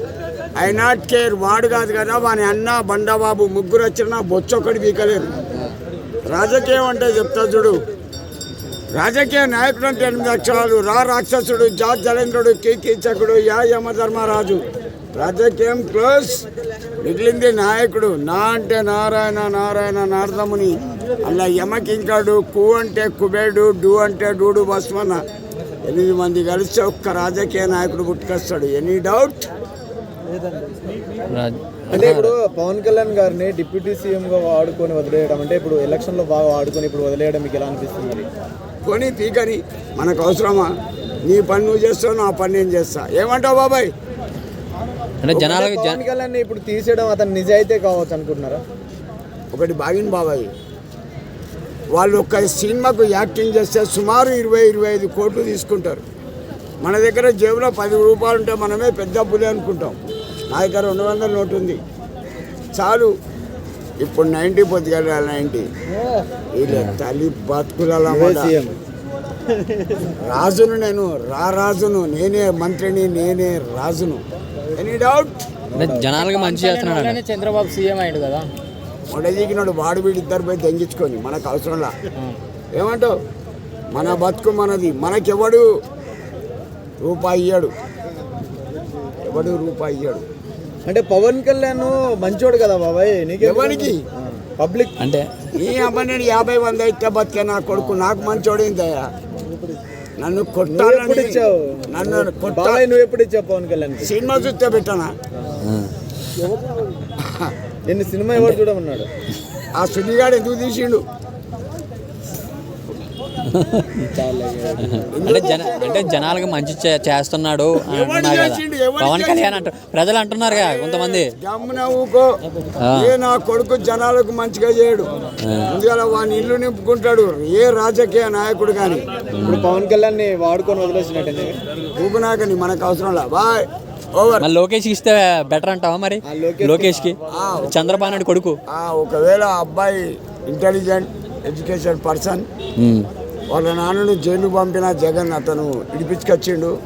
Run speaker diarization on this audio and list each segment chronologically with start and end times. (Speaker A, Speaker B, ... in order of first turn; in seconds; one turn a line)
Speaker A: 0.6-5.3
Speaker A: 6.3-7.8
Speaker A: 8.9-14.6
Speaker A: 15.2-16.4
Speaker A: 17.0-25.2
Speaker A: 25.8-29.5
Speaker B: 31.3-32.4
Speaker C: 31.9-38.3
Speaker A: 38.9-40.7
Speaker A: 41.2-43.9
Speaker B: 45.2-46.0
Speaker C: 45.4-48.6
Speaker A: 49.5-50.5
Speaker A: 51.9-56.0
Speaker A: 56.8-61.8
Speaker A: 62.8-63.1
Speaker A: 64.0-65.7
Speaker A: 66.5-68.5
Speaker B: 66.7-67.0
Speaker C: 68.1-68.7
Speaker A: 70.2-74.2
Speaker A: 74.8-75.4
Speaker C: 75.7-76.1
Speaker B: 75.8-77.2
Speaker D: 76.2-78.5
Speaker A: 79.1-82.0
Speaker A: 82.8-83.1
Speaker A: 83.9-85.7
Speaker A: 87.0-87.7
Speaker A: 89.2-90.2
Speaker C: 90.9-95.0
Speaker A: 93.4-94.0
Speaker B: 95.0-95.3
Speaker A: 95.5-99.1
Speaker A: 100.2-102.8
Speaker C: 100.7-104.1
Speaker A: 104.0-105.1
Speaker B: 105.6-105.9
Speaker A: 107.2-107.5
Speaker C: 107.9-109.1
Speaker A: 109.8-111.0
Speaker B: 113.5-114.1
Speaker C: 114.1-115.7
Speaker B: 114.8-121.3
Speaker A: 115.2-116.3
Speaker A: 117.8-119.7
Speaker A: 120.5-122.3
Speaker B: 122.8-123.1
Speaker A: 122.9-125.1
Speaker B: 125.5-125.8
Speaker A: 125.7-129.1
Speaker B: 129.3-129.7
Speaker C: 129.4-131.6
Speaker A: 132.0-134.5
Speaker B: 134.4-138.6
Speaker C: 136.2-137.4
Speaker A: 137.3-138.2
Speaker A: 138.7-142.5
Speaker B: 142.8-143.1
Speaker A: 143.5-146.7